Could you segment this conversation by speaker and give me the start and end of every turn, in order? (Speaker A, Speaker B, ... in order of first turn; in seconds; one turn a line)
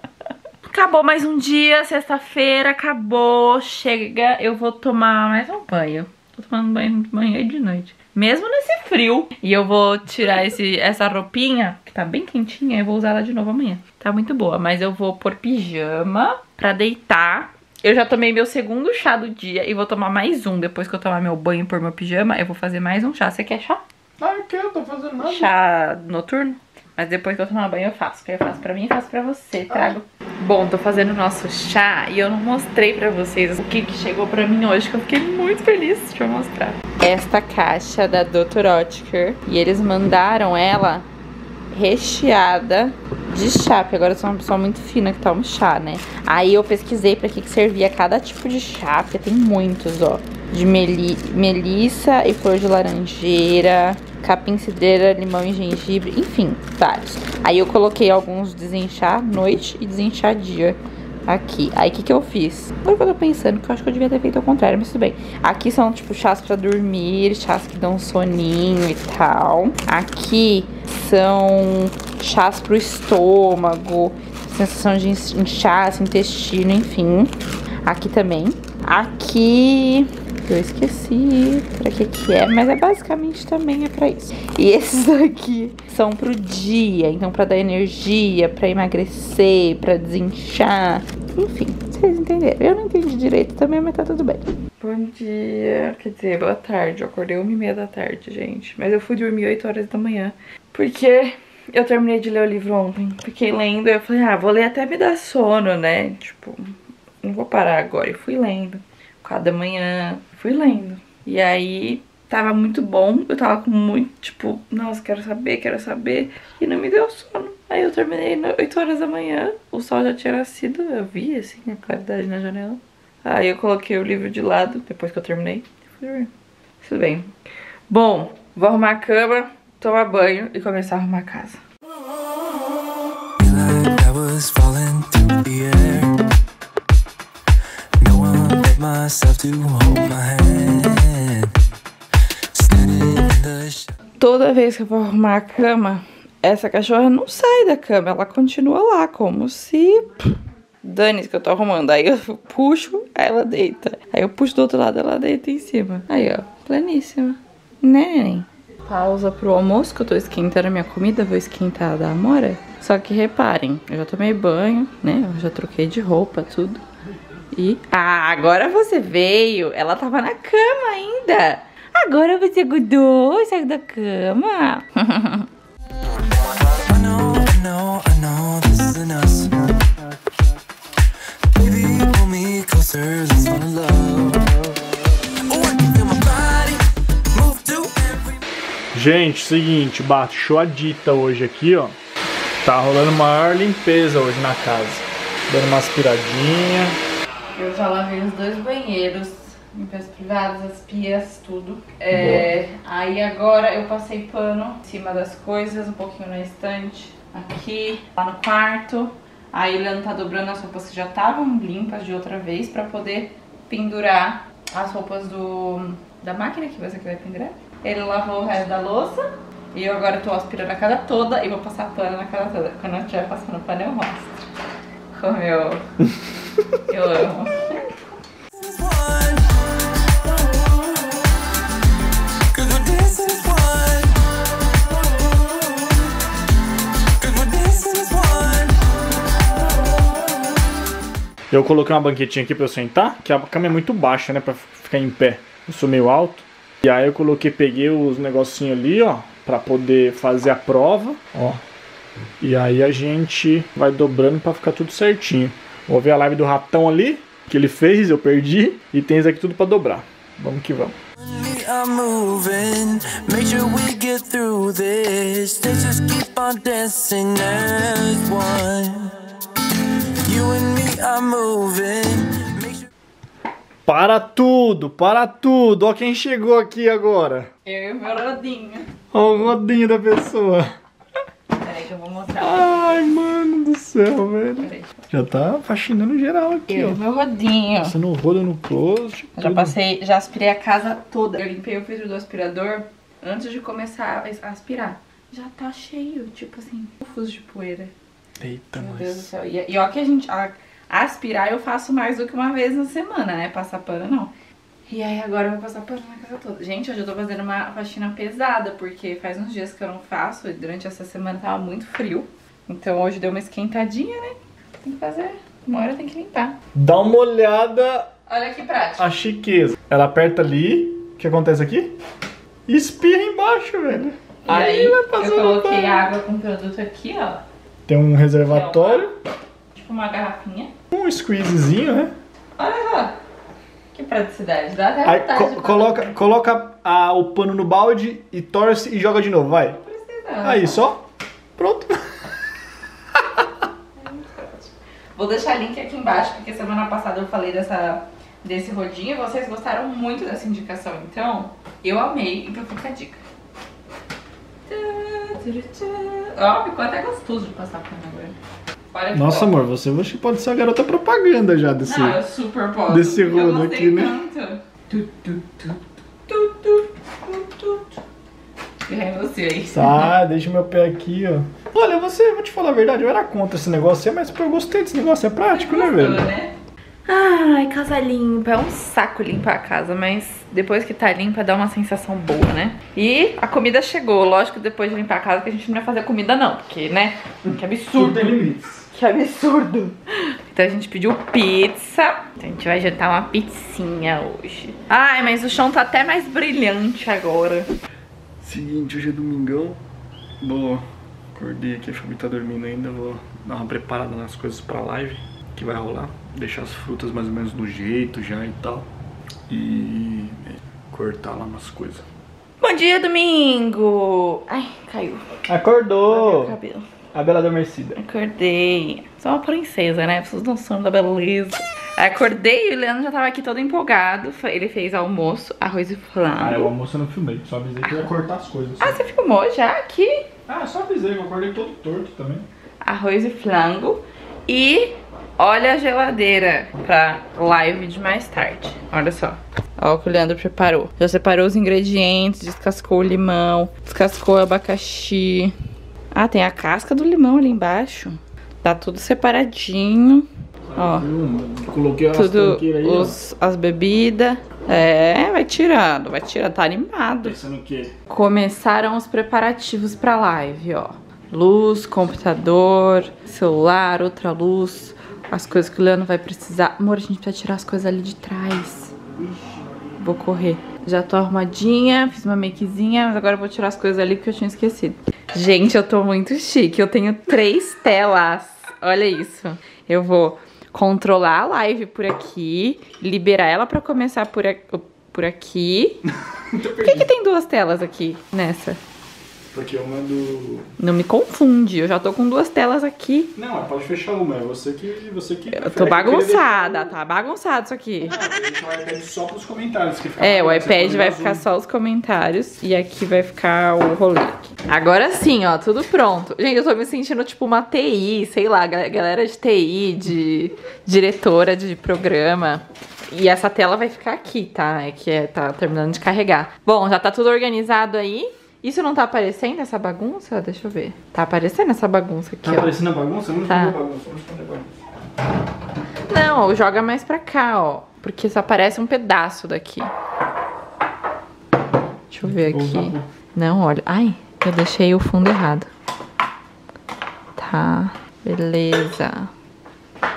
Speaker A: 0.7-23.8
Speaker B: 24.2-25.5
Speaker A: 25.2-41.1
Speaker B: 29.7-30.0
Speaker A: 41.7-126.3
Speaker A: 126.8-127.3
Speaker A: 127.9-131.6
Speaker C: 133.4-136.2
Speaker C: 138.0-141.5
Speaker C: 142.5-143.9
Speaker A: 144.2-166.8
Speaker A: 167.5-175.5
Speaker C: 176.5-179.8
Speaker B: 180.0-180.5
Speaker C: 181.5-184.6
Speaker C: 185.4-188.3
Speaker B: 188.9-192.0
Speaker B: 192.6-197.0
Speaker A: 197.6-224.4
Speaker B: 202.1-202.5
Speaker A: 225.1-225.9
Speaker A: 226.9-227.9
Speaker C: 228.6-229.6
Speaker C: 232.5-234.2
Speaker C: 235.2-235.9
Speaker C: 237.2-240.5
Speaker B: 241.5-251.6
Speaker B: 252.4-261.0
Speaker C: 261.2-269.2
Speaker C: 270.2-272.8
Speaker B: 273.9-277.5
Speaker A: 277.6-278.9
Speaker B: 279.1-280.7
Speaker A: 281.6-283.1
Speaker B: 282.4-287.0
Speaker A: 284.6-284.9
Speaker A: 286.7-287.9
Speaker B: 287.8-289.8
Speaker A: 289.4-297.9
Speaker B: 298.4-299.3
Speaker A: 298.8-304.3
Speaker A: 304.9-316.6
Speaker B: 316.8-318.1
Speaker A: 318.3-319.1
Speaker B: 319.0-321.9
Speaker B: 322.7-326.1
Speaker A: 324.4-327.4
Speaker B: 327.9-329.1
Speaker A: 328.5-329.1
Speaker A: 329.7-330.7
Speaker B: 330.9-332.1
Speaker A: 332.6-333.2
Speaker A: 333.9-336.1
Speaker B: 335.0-339.8
Speaker A: 339.8-340.8
Speaker B: 340.4-341.1
Speaker B: 341.6-342.5
Speaker B: 343.1-343.5
Speaker A: 344.0-353.2
Speaker A: 354.7-358.4
Speaker A: 358.9-359.7
Speaker B: 359.1-362.2
Speaker A: 361.9-368.0
Speaker B: 362.9-364.2
Speaker A: 368.9-370.1
Speaker B: 369.7-376.3
Speaker A: 375.5-376.5
Speaker A: 377.1-388.4
Speaker B: 387.4-388.9
Speaker A: 388.9-397.7
Speaker B: 398.4-399.8
Speaker B: 400.4-408.9
Speaker B: 409.5-412.1
Speaker A: 412.6-415.4
Speaker B: 415.5-416.6
Speaker A: 416.1-416.9
Speaker B: 417.1-418.0
Speaker A: 418.0-426.7
Speaker B: 426.3-429.0
Speaker A: 428.8-430.3
Speaker B: 430.5-432.5
Speaker A: 432.8-445.6
Speaker A: 446.1-451.1
Speaker B: 450.7-453.2
Speaker A: 452.1-457.4
Speaker B: 457.2-457.9
Speaker A: 458.1-469.0
Speaker B: 469.1-470.0
Speaker A: 470.0-486.0
Speaker B: 486.5-487.1
Speaker A: 486.8-488.8
Speaker B: 489.5-490.7
Speaker A: 490.8-493.3
Speaker B: 493.4-496.9
Speaker A: 495.5-498.2
Speaker B: 498.0-501.4
Speaker A: 500.2-522.7
Speaker B: 522.4-524.7
Speaker A: 523.5-523.8
Speaker A: 526.1-529.9
Speaker A: 532.1-535.7
Speaker B: 532.2-533.1
Speaker A: 537.4-539.3